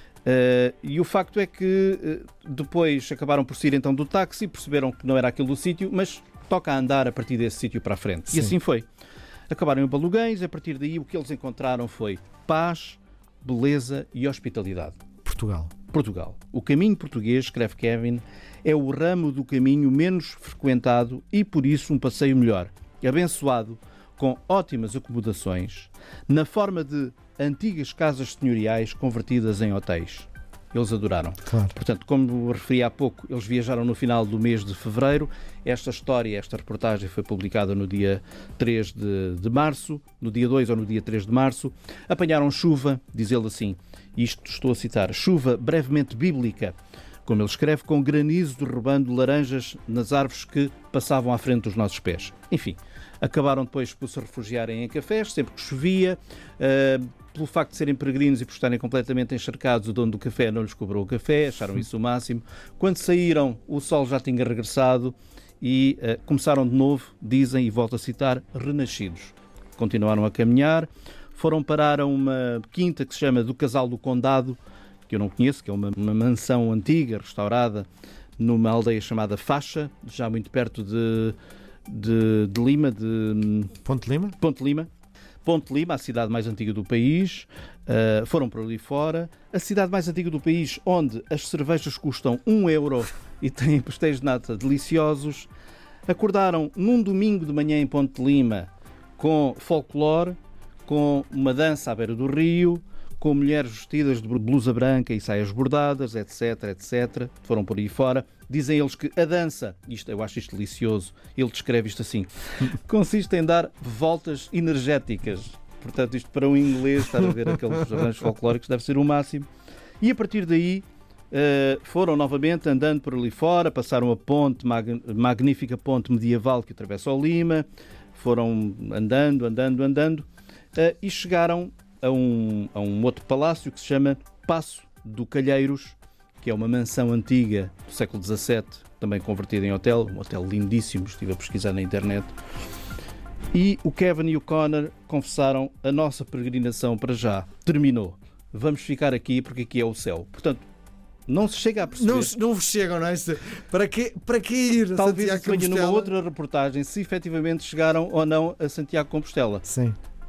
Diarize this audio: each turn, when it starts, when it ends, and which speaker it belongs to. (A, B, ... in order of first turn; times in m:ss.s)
0:00.2-0:08.8 A
0:09.5-0:15.0 A
0:15.2-0:15.7 B
0:15.9-1:14.6 A
0:31.5-0:31.7 B
1:15.1-1:17.9 A
1:18.4-1:23.8 A
1:23.8-1:24.4 B
1:24.4-1:24.9 A
1:25.4-1:35.5 A
1:36.1-1:52.3 A
1:52.8-1:59.5 A
2:00.0-2:22.3 A
2:23.5-2:30.6 A
2:31.3-2:32.4 A
2:31.9-2:36.1 B
2:35.0-2:39.6 A
2:39.6-2:40.0 B